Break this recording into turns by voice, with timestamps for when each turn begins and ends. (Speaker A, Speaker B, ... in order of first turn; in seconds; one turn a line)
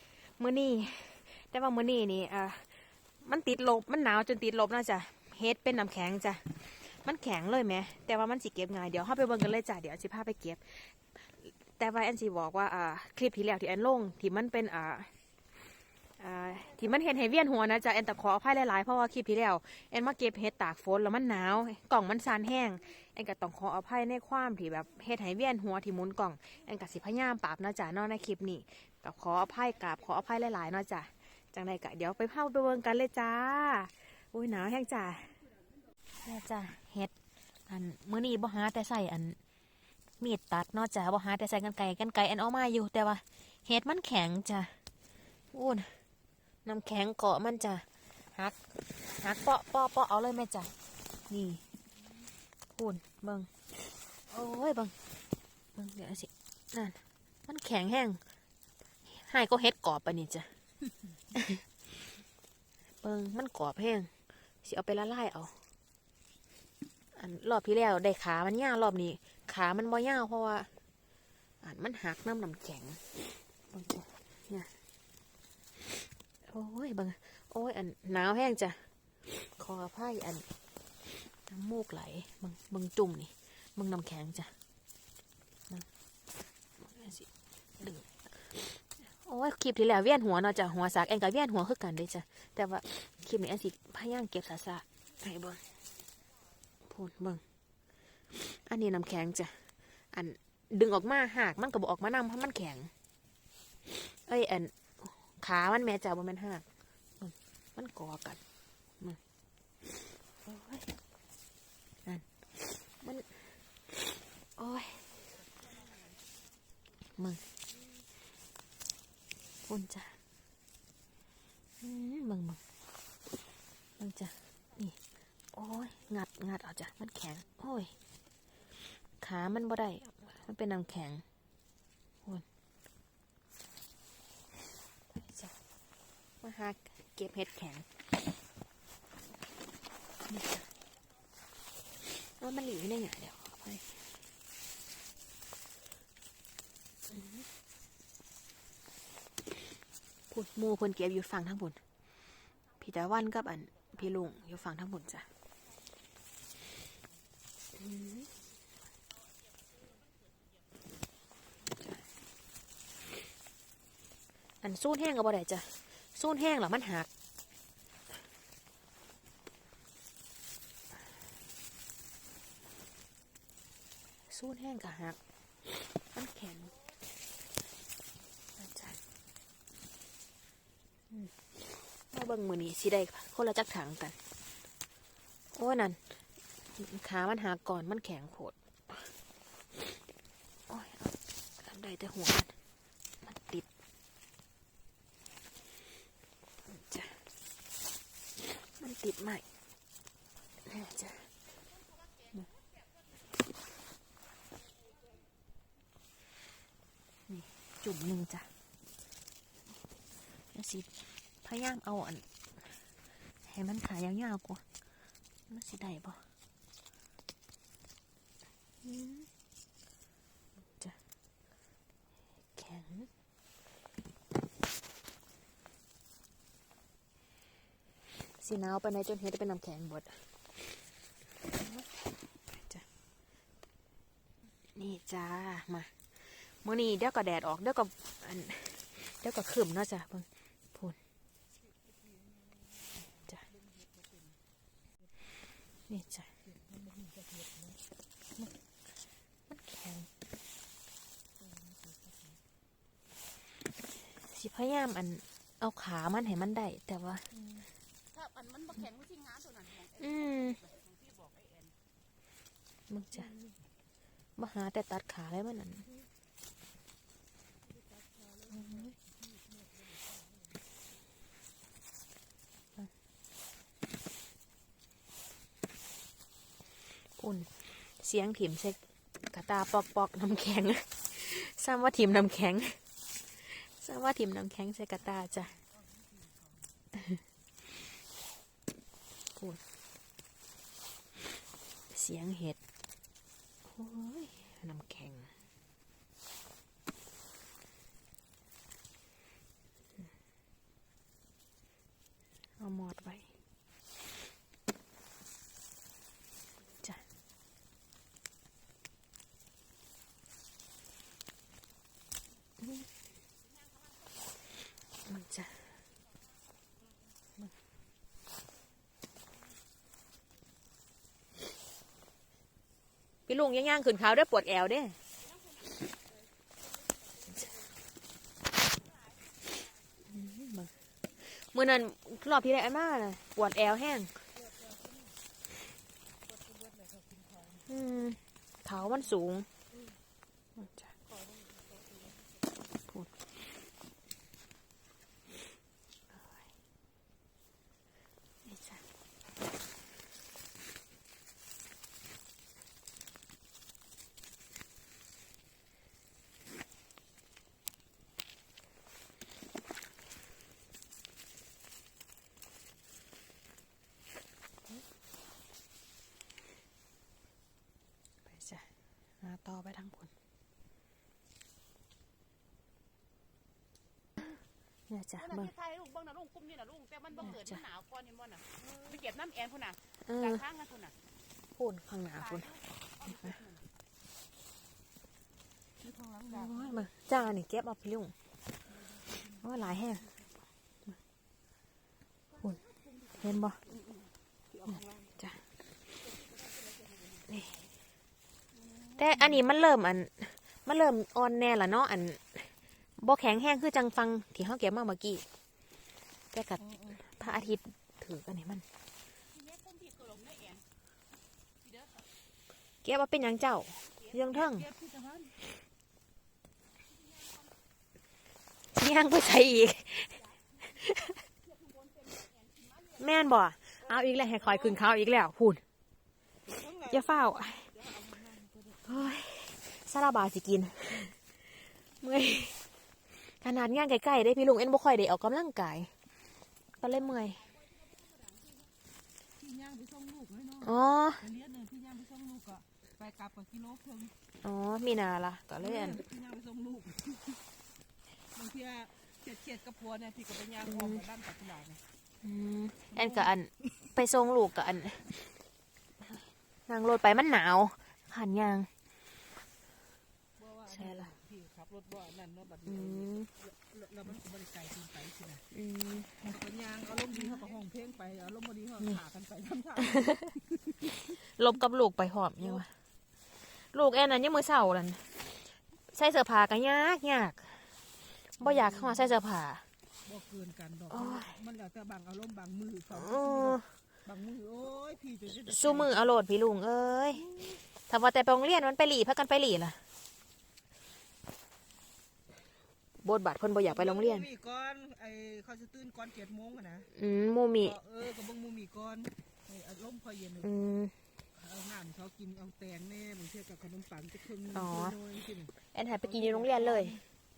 Speaker A: 0.2-15.1
Speaker A: 16.2-35.4
Speaker A: 36.2-37.1
Speaker A: 37.7-39.4
Speaker A: 40.2-44.8
Speaker A: 45.5-46.0
Speaker A: 46.6-50.7
Speaker A: 51.3-51.6
Speaker A: 52.7-53.5
Speaker A: 54.3-54.9
Speaker A: 55.7-58.2
Speaker A: 59.1-60.5
Speaker A: 61.3-61.6
Speaker A: 63.0-64.1
Speaker A: 64.6-65.5
Speaker A: 67.1-70.7
Speaker A: 71.6-73.0
Speaker A: 73.7-74.7
Speaker A: 76.5-78.8
Speaker A: 79.4-80.4
Speaker A: 81.5-84.5
Speaker A: 86.8-87.3
Speaker A: 87.8-88.2
Speaker A: 89.1-95.6
Speaker A: 96.9-97.4
Speaker A: 98.7-99.6
Speaker A: 100.1-102.9
Speaker A: 104.3-106.6
Speaker A: 107.2-108.4
Speaker A: 110.4-110.9
Speaker A: 112.9-113.4
Speaker A: 114.6-115.0
Speaker A: 119.7-120.2
Speaker A: 121.8-122.6
Speaker A: 124.0-125.0
Speaker A: 125.5-127.9
Speaker A: 129.2-131.2
Speaker A: 135.1-135.5
Speaker A: 136.4-137.8
Speaker A: 140.3-140.7
Speaker A: 142.4-144.0
Speaker A: 150.3-151.8
Speaker A: 152.8-155.2
Speaker A: 157.8-158.3
Speaker B: 159.8-160.6
Speaker A: 164.6-167.1
Speaker A: 174.3-175.2
Speaker A: 176.1-176.7
Speaker A: 178.6-178.9
Speaker A: 182.1-184.2
Speaker A: 185.5-186.1
Speaker A: 186.7-189.1
Speaker A: 190.7-192.5
Speaker A: 193.2-193.7
Speaker A: 196.7-197.2
Speaker A: 198.8-199.4
Speaker A: 200.6-201.3
Speaker B: 201.6-202.8
Speaker A: 207.3-208.5
Speaker A: 210.5-210.9
Speaker A: 211.4-212.2
Speaker A: 213.4-214.6
Speaker A: 215.5-216.2
Speaker A: 218.8-219.3
Speaker A: 222.5-223.1
Speaker A: 228.4-230.2
Speaker A: 231.5-231.9
Speaker A: 232.5-232.8
Speaker A: 234.7-241.0
Speaker C: 241.6-244.4
Speaker A: 245.9-246.3
Speaker C: 246.4-247.8
Speaker A: 249.5-250.1
Speaker C: 251.4-252.4
Speaker A: 254.1-257.3
Speaker C: 257.3-257.6
Speaker B: 258.1-261.7
Speaker A: 260.0-260.6
Speaker A: 262.9-263.3
Speaker C: 263.1-263.6
Speaker A: 264.4-265.8
Speaker C: 267.6-270.6
Speaker A: 268.5-268.9
Speaker A: 277.2-278.8
Speaker A: 279.3-282.8
Speaker A: 283.4-285.5
Speaker C: 285.5-286.7
Speaker A: 291.9-292.6
Speaker A: 293.6-295.3
Speaker A: 302.6-303.3
Speaker A: 312.6-312.9
Speaker B: 313.3-314.2
Speaker A: 315.1-315.5
Speaker A: 323.3-325.0
Speaker B: 325.2-325.8
Speaker C: 326.9-327.6
Speaker A: 330.1-334.1
Speaker C: 334.3-335.2
Speaker C: 336.2-337.7
Speaker A: 337.7-339.5
Speaker A: 340.6-340.9
Speaker C: 341.0-342.8
Speaker A: 348.4-348.8
Speaker A: 368.2-368.7
Speaker A: 369.2-370.1
Speaker A: 374.9-375.5
Speaker B: 375.2-380.9
Speaker A: 377.2-377.6
Speaker C: 378.6-379.0
Speaker A: 380.0-380.4
Speaker A: 381.6-382.5
Speaker B: 382.2-383.6
Speaker A: 383.1-383.3
Speaker C: 385.8-386.9
Speaker A: 386.3-388.1
Speaker C: 388.6-390.3
Speaker A: 389.4-390.0
Speaker B: 392.3-393.7
Speaker A: 393.2-393.6
Speaker C: 394.5-395.1
Speaker A: 394.7-395.4
Speaker B: 396.3-397.3
Speaker A: 397.3-397.5
Speaker C: 398.5-399.4
Speaker A: 399.0-405.2
Speaker A: 406.3-408.6
Speaker C: 406.6-407.4
Speaker B: 409.2-410.6
Speaker B: 411.6-412.1
Speaker A: 412.8-414.6
Speaker B: 413.8-414.2
Speaker C: 414.3-415.3
Speaker B: 416.8-417.5
Speaker A: 418.7-421.2
Speaker B: 421.2-423.3
Speaker A: 423.0-425.6
Speaker C: 426.4-429.1
Speaker A: 426.9-427.7
Speaker A: 428.9-431.1
Speaker A: 432.0-432.6
Speaker A: 433.4-435.9
Speaker A: 436.8-437.4
Speaker B: 437.0-438.7
Speaker C: 439.4-444.1
Speaker A: 440.6-441.2
Speaker A: 444.4-446.0
Speaker C: 445.6-447.4
Speaker C: 448.2-451.8
Speaker A: 450.7-451.0
Speaker A: 452.2-455.1
Speaker C: 452.9-453.3
Speaker A: 456.7-458.7
Speaker C: 460.4-465.4
Speaker A: 460.7-461.1
Speaker A: 462.7-463.3
Speaker A: 465.5-466.3
Speaker C: 466.2-470.9
Speaker A: 469.8-470.3
Speaker A: 471.2-472.7
Speaker C: 472.4-472.6
Speaker A: 473.6-475.1
Speaker A: 475.9-477.6
Speaker A: 478.4-479.6
Speaker C: 478.4-479.1
Speaker C: 480.0-486.0
Speaker A: 480.9-481.3
Speaker A: 482.9-483.7
Speaker A: 485.4-487.3
Speaker A: 487.9-489.8
Speaker A: 493.0-494.2
Speaker C: 493.7-496.9
Speaker A: 496.9-497.8
Speaker C: 497.6-500.6
Speaker A: 500.4-500.9
Speaker C: 501.3-507.0
Speaker A: 504.5-505.0
Speaker A: 505.7-507.0